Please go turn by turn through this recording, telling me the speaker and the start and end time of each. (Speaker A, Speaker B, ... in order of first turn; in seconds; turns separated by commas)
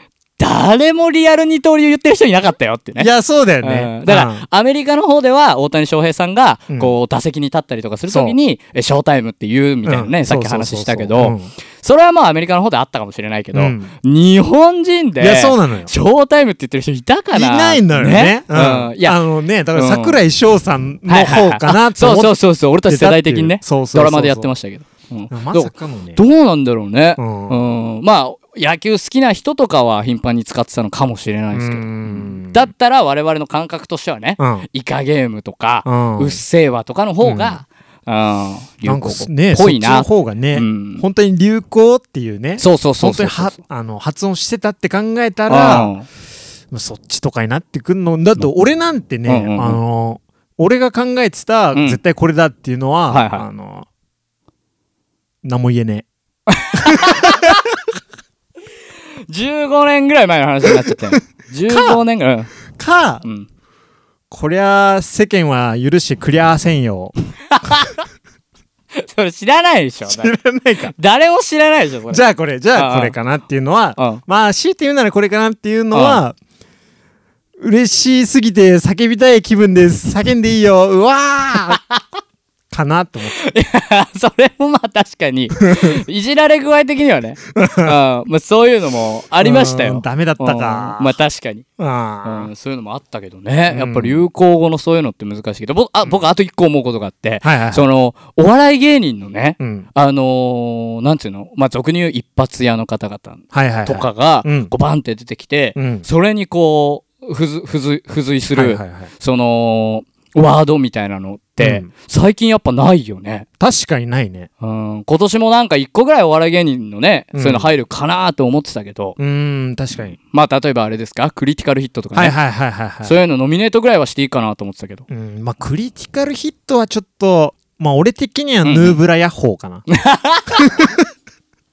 Speaker A: 0.4-3.1, Speaker B: 3.0-4.4, Speaker A: 3.6-19.2, Speaker B: 6.7-6.9, Speaker B: 8.1-8.3, Speaker B: 9.8-11.5, Speaker B: 13.5-13.9, Speaker B: 15.2-15.9, Speaker B: 17.3-24.5, Speaker A: 19.7-20.2, Speaker A: 21.1-41.0, Speaker B: 25.3-26.2, Speaker B: 27.2-27.6, Speaker B: 31.5-32.7, Speaker B: 34.4-34.7, Speaker B: 35.8-36.4, Speaker B: 37.2-37.6, Speaker B: 38.8-45.9, Speaker A: 42.6-43.6, Speaker A: 45.5-46.0, Speaker B: 46.7-53.9, Speaker A: 49.2-49.8, Speaker A: 51.7-52.0, Speaker A: 53.1-53.5, Speaker B: 55.4-56.0, Speaker A: 56.5-57.6, Speaker B: 56.7-57.8, Speaker A: 59.3-62.5, Speaker B: 60.6-61.0, Speaker B: 61.7-62.0, Speaker B: 62.7-63.2, Speaker A: 63.2-63.5, Speaker B: 64.3-67.1, Speaker A: 67.5-68.0, Speaker A: 68.9-70.3, Speaker B: 70.1-70.9, Speaker A: 71.0-73.1, Speaker B: 72.1-76.4, Speaker A: 74.0-74.2, Speaker A: 75.9-76.2, Speaker B: 77.6-81.8, Speaker A: 81.7-82.0, Speaker B: 82.7-83.3, Speaker A: 83.3-91.7, Speaker B: 85.7-86.0, Speaker B: 87.5-87.9, Speaker B: 89.4-91.2, Speaker B: 91.8-92.5, Speaker A: 92.2-113.5, Speaker B: 93.7-94.2, Speaker B: 97.4-97.8, Speaker B: 99.6-99.9, Speaker B: 103.5-104.7, Speaker B: 105.8-106.0, Speaker B: 108.5-109.1, Speaker B: 111.6-111.9, Speaker B: 113.6-114.5, Speaker A: 114.6-119.2, Speaker B: 117.3-117.7, Speaker B: 119.2-120.2, Speaker A: 120.2-122.3, Speaker B: 122.1-123.2, Speaker A: 123.0-125.0, Speaker B: 125.1-129.8, Speaker A: 128.6-129.0, Speaker A: 129.9-130.7, Speaker B: 130.5-131.1